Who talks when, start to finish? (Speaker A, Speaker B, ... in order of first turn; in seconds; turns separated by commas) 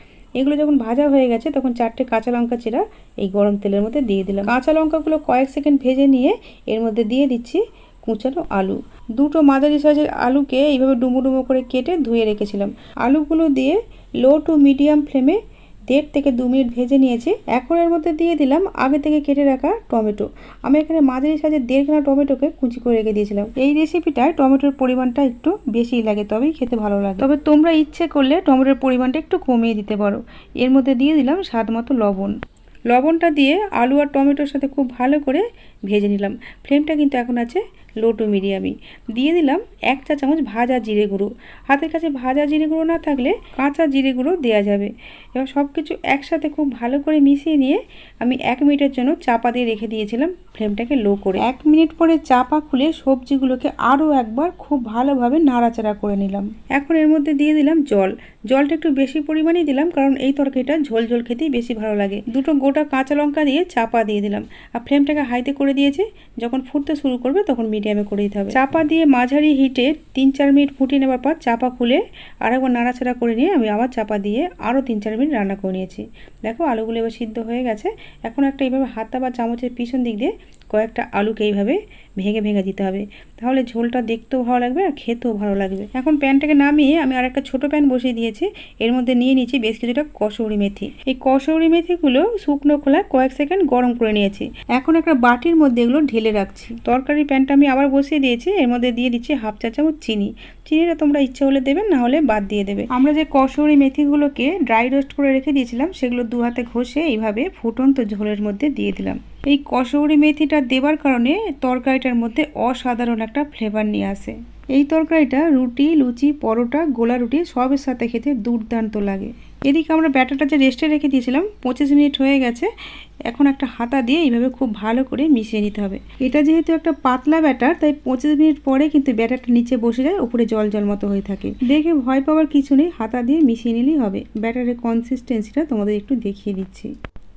Speaker A: 0.4-32.3, Speaker A: 32.9-122.7, Speaker A: 123.3-136.9